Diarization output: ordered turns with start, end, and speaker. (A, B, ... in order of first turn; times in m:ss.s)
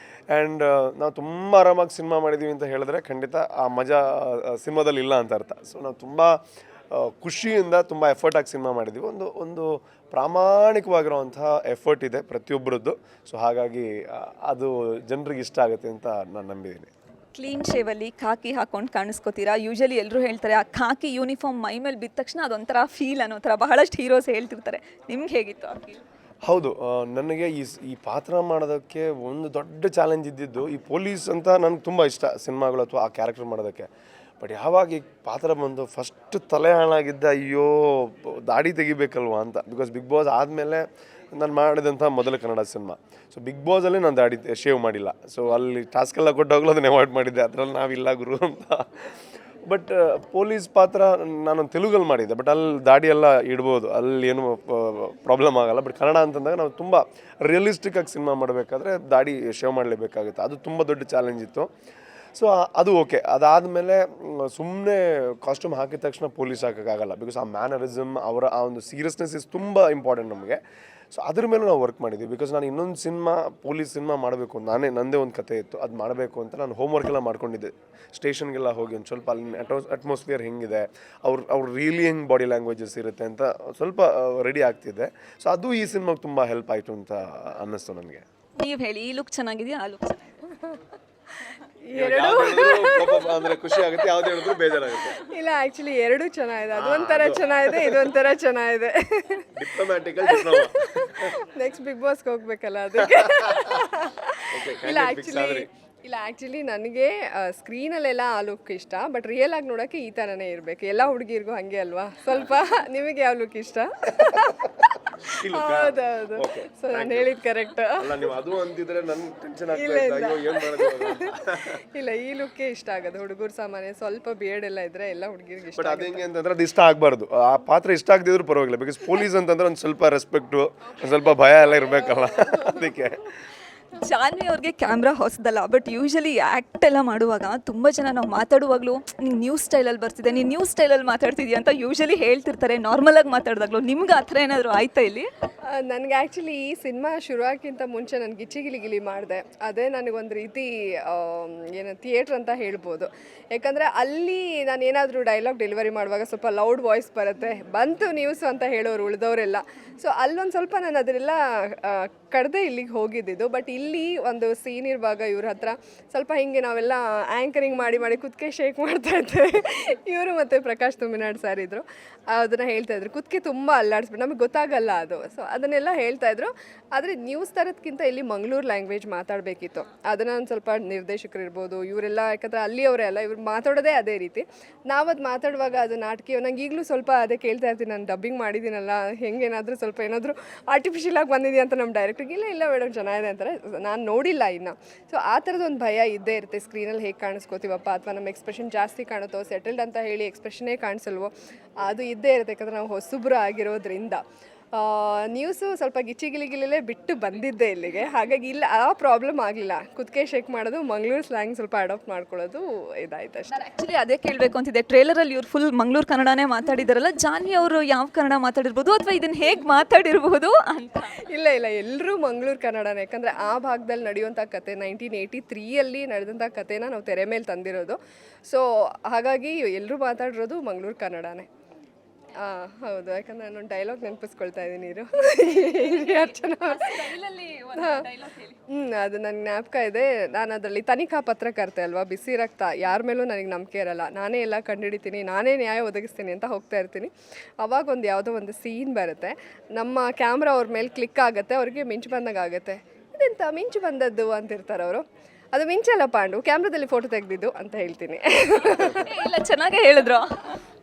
0:00.3-0:06.4 A
0:06.9-0:16.9 A
0:17.3-0:26.0 B
0:26.5-0:33.9 A
0:34.4-0:48.9 A
0:49.7-1:01.7 A
1:02.4-1:10.6 A
1:11.1-1:28.2 A
1:28.6-1:30.2 B
1:31.8-1:39.5 C
1:32.0-1:35.2 A
1:36.8-1:38.0 A
1:39.6-1:41.4 A
1:40.3-1:58.3 C
1:43.0-1:43.8 A
1:44.5-1:45.7 A
1:55.4-1:57.3 A
1:58.0-2:01.8 A
1:59.7-2:01.4 C
2:02.0-2:06.2 C
2:05.8-2:13.3 A
2:11.4-2:12.9 C
2:13.9-2:25.3 B
2:25.7-3:24.2 C
3:24.7-3:33.6 C
3:33.5-3:41.2 B
3:41.2-3:51.5 C
3:52.4-3:57.1 C
3:55.5-3:58.6 B
3:57.8-3:58.1 C
3:58.7-4:07.1 C
4:07.6-4:19.1 C
4:18.9-4:20.3 B